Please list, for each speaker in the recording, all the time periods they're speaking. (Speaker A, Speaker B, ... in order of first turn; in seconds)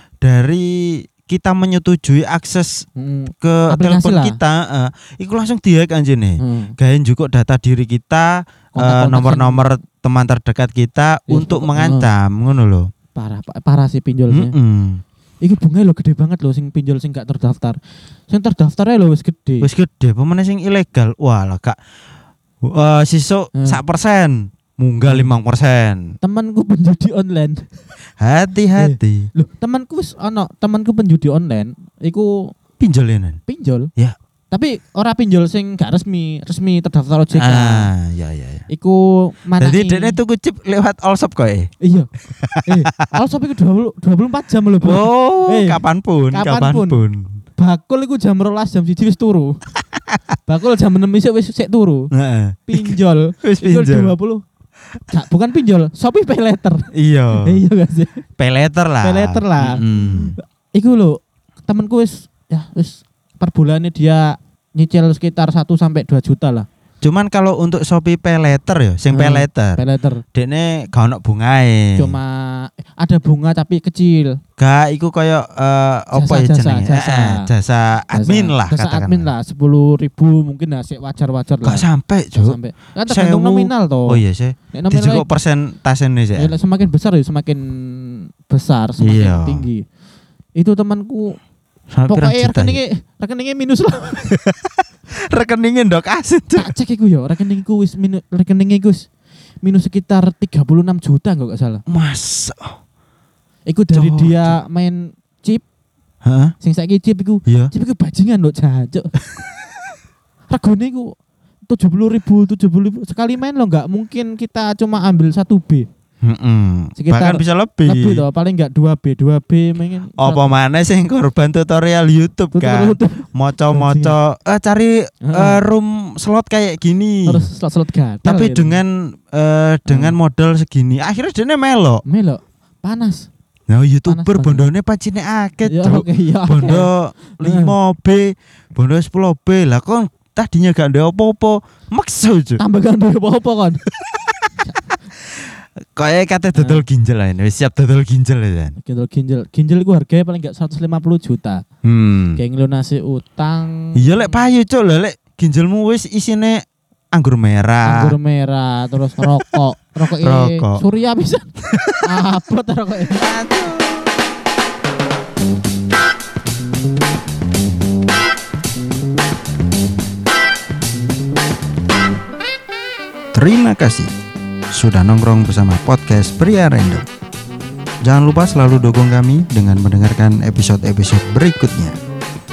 Speaker A: 0.2-2.9, 3.4-12.9, 14.3-15.0, 19.6-21.8, 22.6-26.1, 28.2-29.3, 32.8-33.4, 37.3-38.6, 39.6-41.7, 42.3-43.1, 44.8-47.4, 52.1-54.1, 56.9-57.6, 58.4-60.4, 67.0-69.8, 70.3-72.2, 74.6-79.3, 81.6-86.5, 89.0-89.7, 91.9-92.8, 95.3-96.7, 101.9-102.8, 103.9-104.6, 106.2-106.5, 107.5-107.7, 116.2-118.2, 120.2-127.5, 128.2-132.0, 133.7-142.6, 145.9-148.7, 151.8-152.4, 153.9-156.6, 157.1-158.2, 160.0-160.8, 161.7-162.1, 163.1-164.1, 173.3-174.1, 174.7-177.1, 178.0-181.9
Speaker B: 3.0-4.4, 6.4-6.7, 8.7-9.7, 11.3-12.1, 13.1-14.6, 15.4-19.7, 26.2-27.7, 28.8-32.5, 33.5-33.9, 34.5-37.9, 38.7-40.2, 41.8-42.1, 42.6-45.8, 46.3-47.0, 47.6-49.6, 50.5-52.1, 52.7-54.4, 55.1-58.2, 59.0-66.7, 69.1-70.2, 72.0-74.4, 76.1-77.5, 78.1-84.2, 84.7-85.3, 86.3-89.8, 90.5-91.4, 92.1-94.3, 96.5-99.0, 99.6-101.8, 103.7-105.6, 106.6-109.1, 110.5-111.1, 111.7-115.9, 117.0-120.5, 122.5-124.2, 125.2-125.6, 127.2-128.8, 129.9-130.2, 132.0-133.3, 134.1-134.7, 135.7-137.7, 142.6-143.8, 146.6-146.8, 148.8-151.6, 152.3-154.3, 157.8-163.3